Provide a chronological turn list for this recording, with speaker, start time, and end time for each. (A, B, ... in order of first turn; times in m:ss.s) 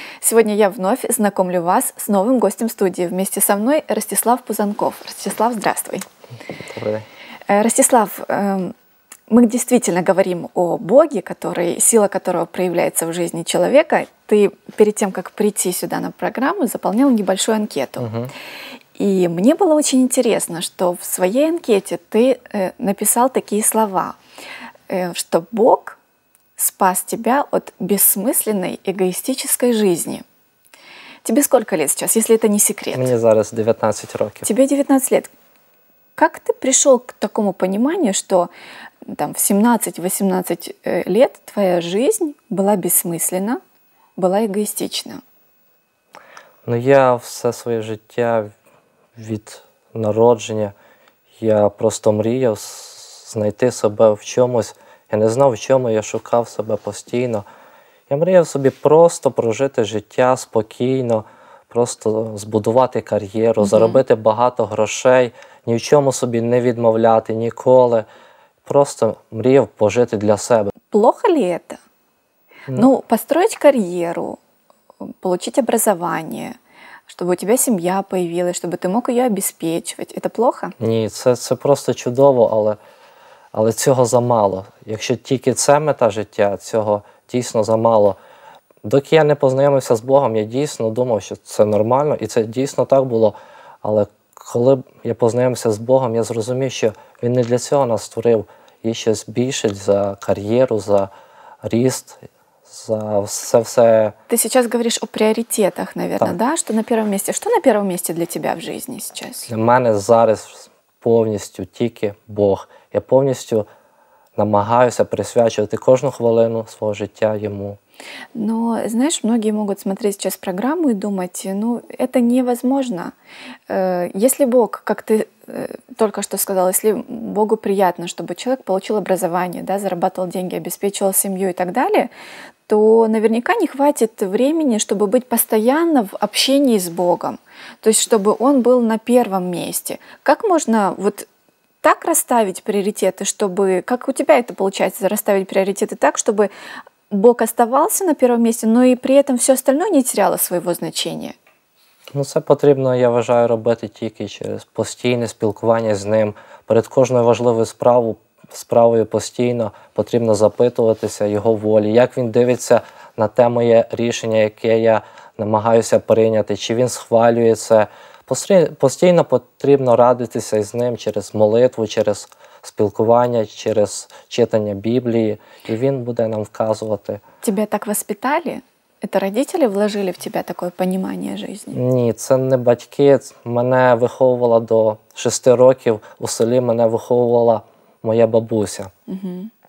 0:00.2-0:06.0 A
0:06.7-0:07.1 B
0:07.5-0:08.7 A
0:09.3-0:18.1 A
0:18.0-0:18.3 B
0:19.0-0:24.2 A
0:24.9-0:26.0 A
0:26.6-0:30.2 A
0:31.2-0:33.1 A
0:32.9-0:34.5 B
0:34.4-0:35.3 A
0:36.2-0:38.5 A
0:39.1-0:43.6 A
0:44.2-0:45.2 A
0:46.7-0:48.5 B
0:49.2-0:50.7 B
0:51.4-0:57.4 B
0:58.1-1:08.1 B
1:03.6-1:04.0 A
1:08.6-1:10.7 B
1:10.9-1:11.8 A
1:12.7-1:14.4 A
1:15.0-1:16.6 A
1:17.1-1:20.8 A
1:20.8-1:22.8 B
1:23.5-1:28.2 B
1:28.8-1:41.1 B
1:41.6-1:44.2 B
1:44.3-1:49.5 A
1:49.5-1:53.7 B
1:54.4-1:57.8 B
1:58.4-2:03.1 A
2:03.7-2:12.1 A
2:12.7-2:21.3 A
2:21.8-2:26.5 A
2:27.1-2:31.4 A
2:32.1-2:57.2 B
2:57.4-3:01.8 A
3:01.7-3:08.9 B
3:09.1-3:09.5 A